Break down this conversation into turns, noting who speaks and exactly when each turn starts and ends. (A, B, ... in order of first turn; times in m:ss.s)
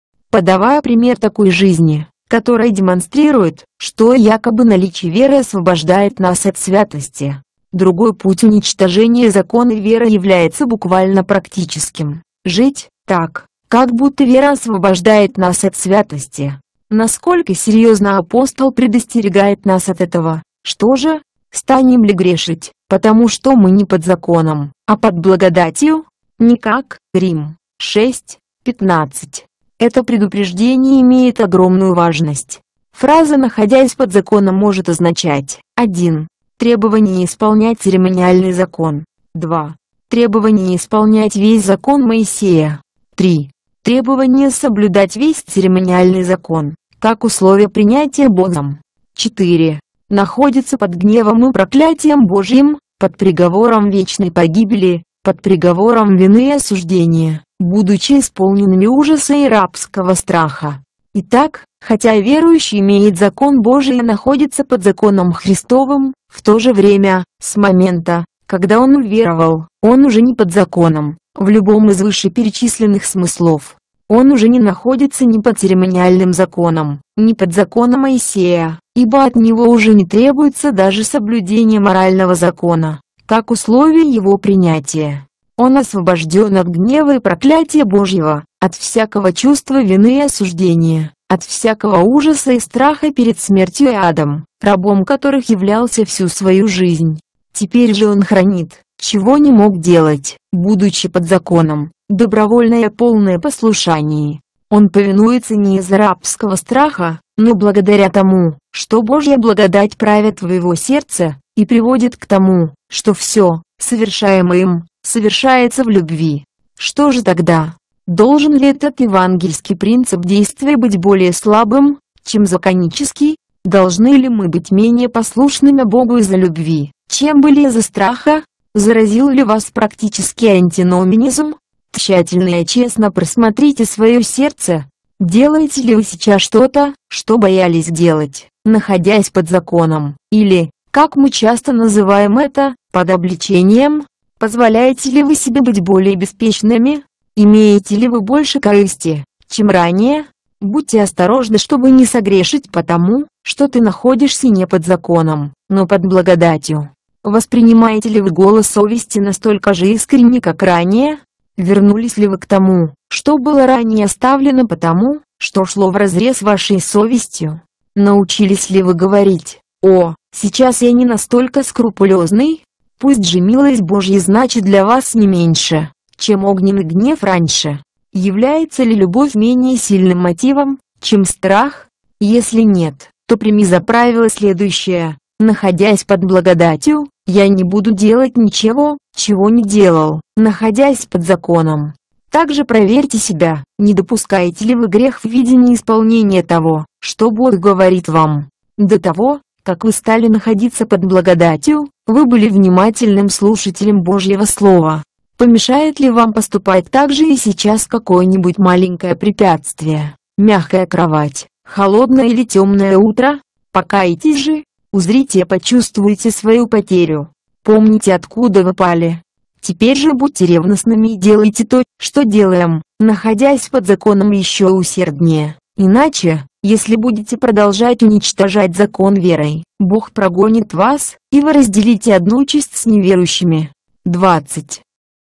0:00.3-3:54.8 A